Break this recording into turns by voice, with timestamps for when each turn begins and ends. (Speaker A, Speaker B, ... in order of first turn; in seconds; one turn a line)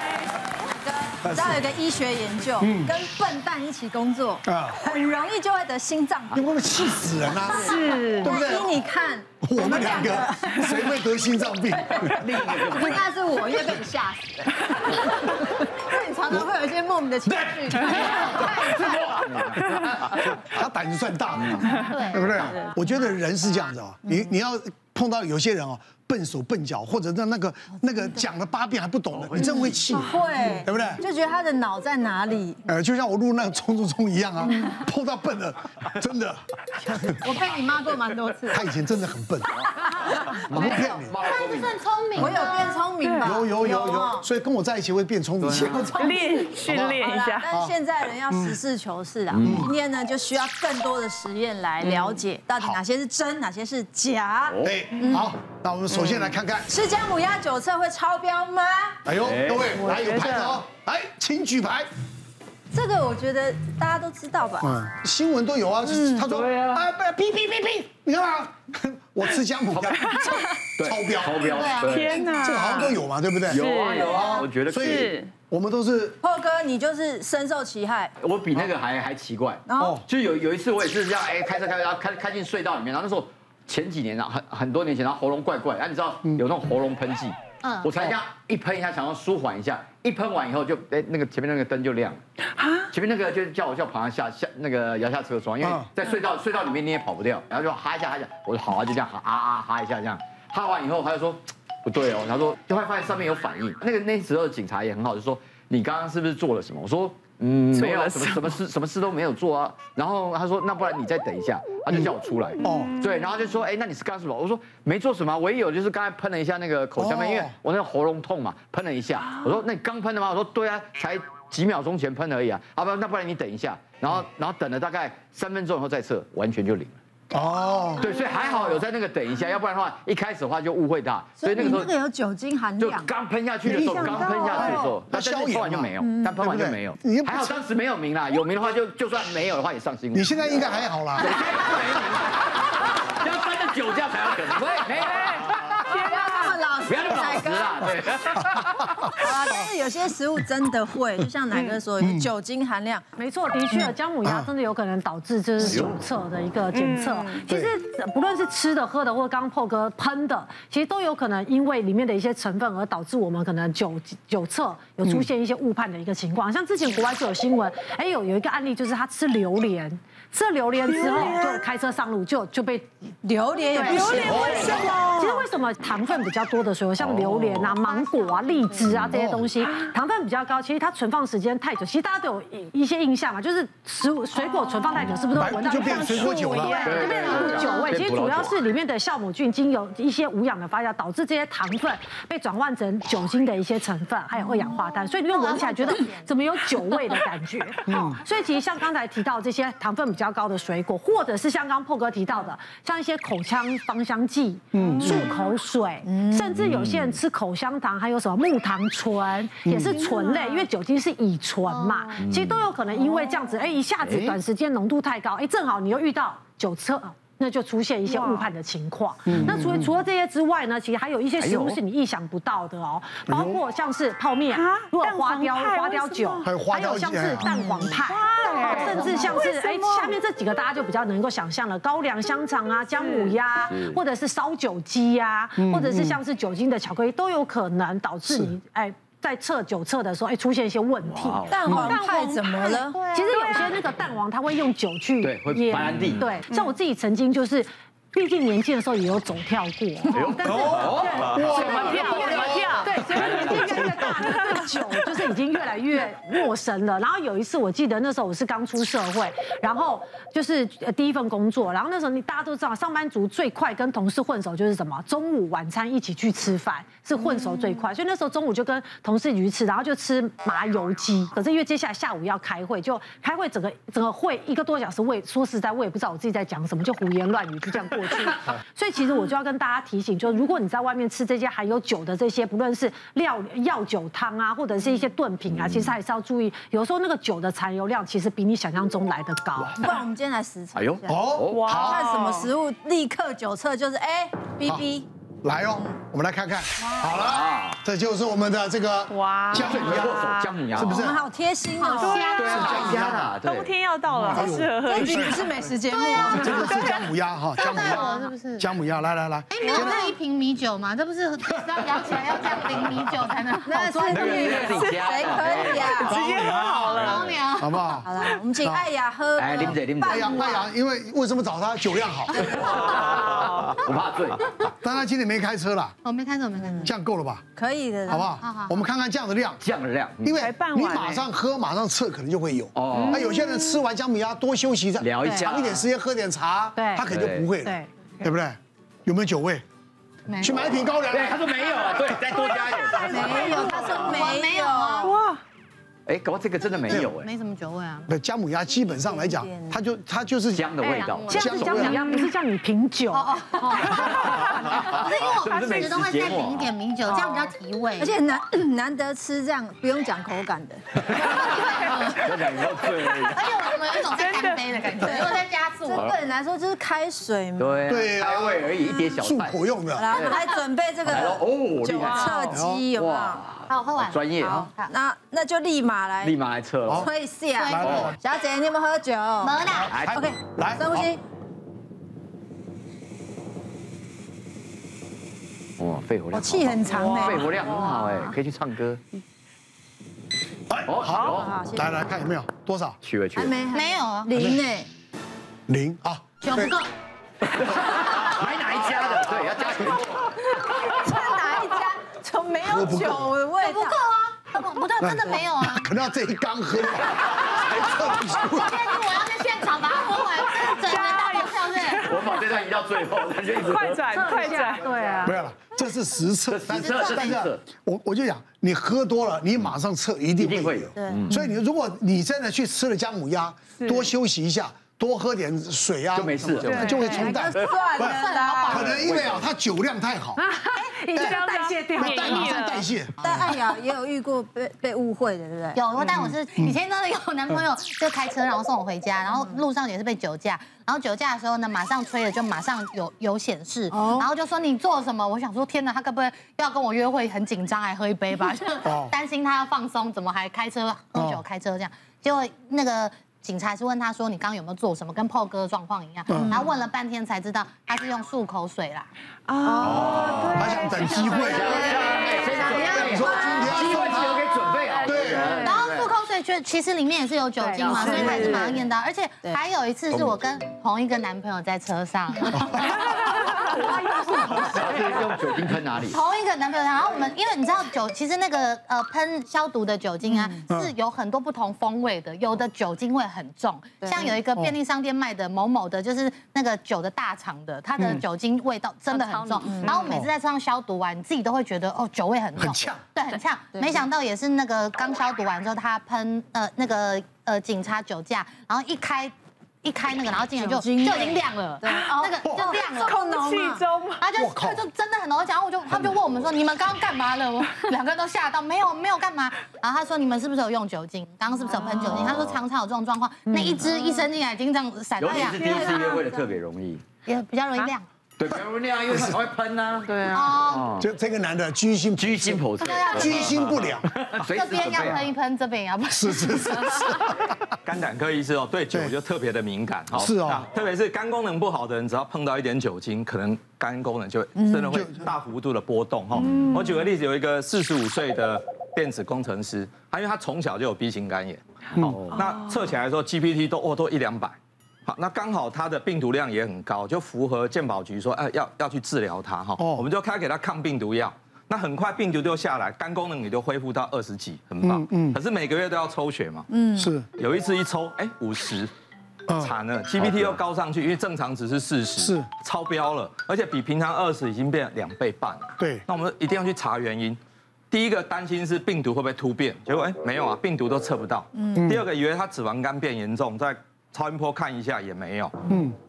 Speaker A: 0.6-6.4
Speaker B: 1.2-1.7
Speaker B: 2.6-3.0
Speaker B: 4.5-4.8
Speaker B: 6.3-8.7
Speaker A: 7.4-10.9
Speaker C: 7.7-8.3
Speaker B: 9.4-12.3
Speaker A: 12.0-18.5
Speaker D: 12.2-13.1
Speaker B: 16.3-16.5
Speaker B: 17.2-18.7
Speaker D: 17.9-20.2
Speaker E: 18.0-18.9
Speaker B: 20.1-31.0
Speaker D: 21.4-21.7
Speaker E: 21.9-22.5
Speaker D: 29.1-29.8
Speaker A: 29.4-32.6
Speaker B: 32.7-37.3
Speaker E: 37.2-38.5
Speaker A: 37.8-38.4
Speaker B: 38.5-39.5
Speaker D: 40.4-41.8
Speaker B: 40.5-41.2
Speaker E: 41.2-42.8
Speaker A: 42.2-44.3
Speaker C: 43.0-43.3
Speaker B: 43.2-47.8
Speaker D: 45.4-45.9
Speaker A: 45.9-55.4
Speaker C: 46.0-47.5
Speaker B: 48.3-48.6
Speaker D: 49.3-49.7
Speaker B: 49.4-49.7
Speaker C: 51.8-52.2
Speaker D: 54.5-54.8
Speaker B: 54.6-56.7
Speaker A: 56.7-59.0
Speaker B: 59.0-61.9
Speaker D: 59.2-59.8
Speaker C: 59.7-60.6
Speaker A: 62.7-64.8
Speaker B: 64.6-76.2
Speaker A: 65.8-66.3
Speaker D: 66.4-66.8
Speaker D: 69.7-72.2
Speaker C: 70.1-70.5
Speaker E: 71.5-72.6
Speaker C: 71.8-73.0
Speaker D: 73.5-75.2
Speaker C: 73.5-75.3
Speaker A: 76.2-78.1
Speaker D: 78.2-92.2
Speaker A: 79.7-80.0
Speaker B: 79.8-80.1
Speaker E: 87.6-87.9
Speaker D: 92.9-127.0
Speaker B: 95.6-95.9
Speaker C: 107.7-108.6
Speaker B: 112.6-112.9
Speaker B: 117.0-117.6
Speaker B: 127.3-128.2
Speaker D: 128.0-132.0
Speaker A: 131.4-133.1
Speaker D: 132.8-146.0
Speaker B: 133.6-137.6
Speaker A: 133.7-134.9
Speaker A: 136.0-136.3
Speaker B: 140.1-141.5
Speaker C: 145.2-146.6
Speaker A: 146.0-147.9
Speaker D: 146.8-148.8
Speaker B: 148.4-148.7
Speaker A: 149.2-153.0
Speaker C: 151.5-151.8
Speaker B: 152.0-152.3
Speaker F: 153.2-172.9
Speaker B: 154.2-154.5
Speaker D: 155.6-156.0
Speaker C: 156.7-157.4
Speaker B: 157.5-157.7
Speaker C: 171.1-171.3
Speaker A: 173.2-174.8
Speaker F: 173.6-289.8
Speaker C: 173.8-175.5
Speaker B: 174.1-175.0
Speaker D: 177.0-177.7
Speaker E: 177.9-178.7
Speaker D: 178.8-179.1
Speaker B: 179.1-179.5
Speaker C: 184.5-185.0
Speaker B: 185.3-186.9
Speaker C: 186.2-187.7
Speaker D: 186.8-188.6
Speaker E: 187.1-187.9
Speaker E: 195.3-196.3
Speaker B: 197.9-198.2
Speaker B: 204.7-205.3
Speaker C: 204.9-205.2
Speaker A: 206.0-206.6
Speaker D: 206.5-207.2
Speaker B: 209.7-209.9
Speaker C: 210.0-210.7
Speaker E: 211.7-212.1
Speaker D: 212.2-212.7
Speaker D: 214.0-214.4
Speaker C: 218.1-218.5
Speaker B: 219.3-219.9
Speaker D: 221.4-221.8
Speaker B: 223.3-223.6
Speaker C: 224.5-226.4
Speaker B: 226.4-227.5
Speaker C: 227.4-230.2
Speaker C: 233.0-233.4
Speaker D: 233.7-234.0
Speaker B: 235.6-236.2
Speaker B: 238.3-238.5
Speaker D: 241.0-241.9
Speaker A: 241.5-243.0
Speaker E: 242.9-243.3
Speaker D: 245.2-246.3
Speaker D: 250.1-254.0
Speaker B: 250.4-252.8
Speaker C: 251.4-253.1
Speaker B: 253.5-254.1
Speaker C: 253.8-254.3
Speaker D: 285.5-286.0
Speaker A: 289.8-295.1
Speaker D: 290.7-291.8
Speaker B: 291.1-292.0
Speaker C: 291.5-292.5
Speaker B: 295.4-301.3
Speaker D: 297.1-297.8
Speaker C: 299.1-300.7
Speaker D: 299.5-301.1
Speaker A: 300.7-302.2
Speaker E: 301.8-303.1
Speaker C: 302.0-302.3
Speaker D: 302.2-303.8
Speaker B: 302.3-303.4
Speaker C: 303.4-305.6
Speaker B: 304.3-305.5
Speaker A: 304.3-306.8
Speaker E: 305.9-306.8
Speaker B: 306.1-310.1
Speaker C: 306.3-307.1
Speaker E: 307.6-308.7
Speaker E: 309.5-314.7
Speaker D: 312.4-312.7
Speaker A: 313.7-316.1
Speaker F: 313.7-314.6
Speaker D: 314.1-316.2
Speaker C: 314.5-317.5
Speaker B: 315.9-318.9
Speaker E: 316.9-317.9
Speaker A: 318.0-320.6
Speaker D: 319.4-320.2
Speaker B: 320.0-322.6
Speaker A: 322.3-322.7
Speaker D: 322.4-324.5
Speaker C: 322.8-323.7
Speaker B: 324.8-326.0
Speaker E: 326.0-326.9
Speaker B: 326.8-327.4
Speaker A: 327.6-328.3
Speaker B: 328.1-329.6
Speaker E: 328.3-328.8
Speaker D: 329.6-330.4
Speaker B: 330.2-339.6
Speaker C: 330.3-331.3
Speaker D: 332.8-333.3
Speaker C: 332.9-333.8
Speaker D: 335.0-335.9
Speaker F: 335.2-335.5
Speaker F: 336.8-337.1
Speaker D: 337.1-337.5
Speaker F: 337.6-337.9
Speaker E: 340.3-340.7
Speaker B: 340.4-341.5
Speaker D: 340.6-343.5
Speaker B: 342.0-342.5
Speaker A: 342.9-345.1
Speaker E: 343.2-345.1
Speaker C: 345.0-345.4
Speaker D: 346.1-347.3
Speaker E: 347.1-348.1
Speaker B: 348.1-350.7
Speaker A: 348.9-349.8
Speaker D: 350.5-351.7
Speaker F: 350.8-354.9
Speaker B: 351.3-352.0
Speaker E: 351.7-351.9
Speaker E: 353.1-358.2
Speaker D: 354.3-356.7
Speaker C: 355.5-356.2
Speaker A: 358.0-360.8
Speaker D: 361.0-363.5
Speaker E: 361.1-362.3
Speaker A: 361.4-361.8
Speaker E: 363.3-366.2
Speaker C: 363.9-365.1
Speaker A: 365.1-367.8
Speaker D: 365.9-366.2
Speaker D: 367.6-370.5
Speaker B: 367.9-370.2
Speaker A: 369.9-373.4
Speaker D: 371.1-374.7
Speaker B: 372.5-372.9
Speaker E: 373.7-374.9
Speaker A: 374.3-376.4
Speaker D: 376.2-377.1
Speaker B: 376.9-377.1
Speaker A: 376.9-381.2
Speaker E: 377.6-378.1
Speaker B: 377.7-378.2
Speaker D: 377.8-378.2
Speaker E: 379.4-380.0
Speaker B: 379.7-381.1
Speaker D: 379.9-380.2
Speaker D: 385.8-389.0
Speaker A: 386.3-387.6
Speaker C: 387.0-388.0
Speaker B: 390.7-393.0
Speaker D: 390.9-391.5
Speaker A: 391.1-392.0
Speaker D: 393.0-393.6
Speaker A: 393.4-394.9
Speaker E: 393.7-394.3
Speaker B: 394.3-394.6
Speaker B: 395.7-396.8
Speaker E: 396.4-396.9
Speaker D: 397.5-400.3
Speaker A: 400.5-404.0
Speaker B: 402.6-403.4
Speaker E: 403.6-405.9
Speaker B: 405.0-408.9
Speaker E: 408.4-412.2
Speaker C: 410.6-412.4
Speaker D: 412.0-414.2
Speaker C: 413.4-414.9
Speaker F: 414.1-415.4
Speaker B: 415.2-430.4
Speaker D: 416.5-417.6
Speaker D: 420.4-421.4
Speaker C: 423.8-424.1
Speaker D: 426.1-426.9
Speaker G: 426.6-427.1
Speaker C: 426.6-427.3
Speaker A: 427.1-428.9
Speaker D: 427.5-427.9
Speaker E: 427.9-428.9
Speaker D: 428.7-429.5
Speaker F: 430.4-432.6
Speaker B: 431.1-433.5
Speaker C: 431.2-432.9
Speaker E: 433.2-433.8
Speaker A: 433.2-435.9
Speaker E: 435.8-459.1
Speaker A: 443.9-444.3
Speaker B: 448.9-449.1
Speaker B: 451.1-451.4
Speaker B: 456.3-456.6
Speaker C: 459.5-461.5
Speaker A: 459.6-460.1
Speaker B: 459.9-461.9
Speaker D: 460.0-460.6
Speaker E: 460.9-462.0
Speaker D: 461.4-466.1
Speaker A: 461.6-464.1
Speaker C: 462.1-462.4
Speaker E: 462.6-464.1
Speaker B: 463.0-465.6
Speaker C: 464.9-465.8
Speaker E: 465.5-474.8
Speaker A: 467.6-468.8
Speaker D: 467.8-468.8
Speaker B: 472.6-473.2
Speaker D: 474.6-476.2
Speaker E: 476.0-503.3
Speaker A: 484.0-484.4
Speaker B: 488.0-488.2
Speaker A: 489.6-490.1
Speaker B: 490.0-490.3
Speaker B: 492.6-493.1
Speaker A: 493.3-494.1
Speaker A: 500.6-504.2
Speaker B: 502.4-502.8
Speaker C: 503.2-504.1
Speaker E: 504.2-516.2
Speaker B: 504.3-504.9
Speaker D: 505.9-506.6
Speaker D: 512.0-512.6
Speaker F: 513.5-513.9
Speaker D: 515.2-517.1
Speaker A: 515.4-516.2
Speaker E: 517.3-518.0
Speaker D: 518.4-521.1
Speaker B: 519.1-519.4
Speaker E: 520.3-521.0
Speaker B: 521.0-524.1
Speaker D: 522.2-525.3
Speaker E: 522.8-523.7
Speaker E: 524.4-527.1
Speaker B: 526.1-527.5
Speaker G: 527.8-556.7
Speaker B: 530.1-530.7
Speaker A: 534.6-535.0
Speaker B: 534.9-535.3
Speaker B: 542.0-542.2
Speaker D: 542.1-542.4
Speaker B: 549.8-550.1
Speaker B: 554.8-555.4
Speaker A: 556.7-557.1
Speaker B: 557.0-557.3
Speaker G: 557.4-558.9
Speaker B: 559.5-559.7
Speaker G: 559.6-567.4
Speaker D: 560.2-560.6
Speaker B: 562.2-562.5
Speaker B: 565.8-566.0
Speaker G: 567.9-575.5
Speaker B: 571.8-572.1
Speaker B: 575.7-576.0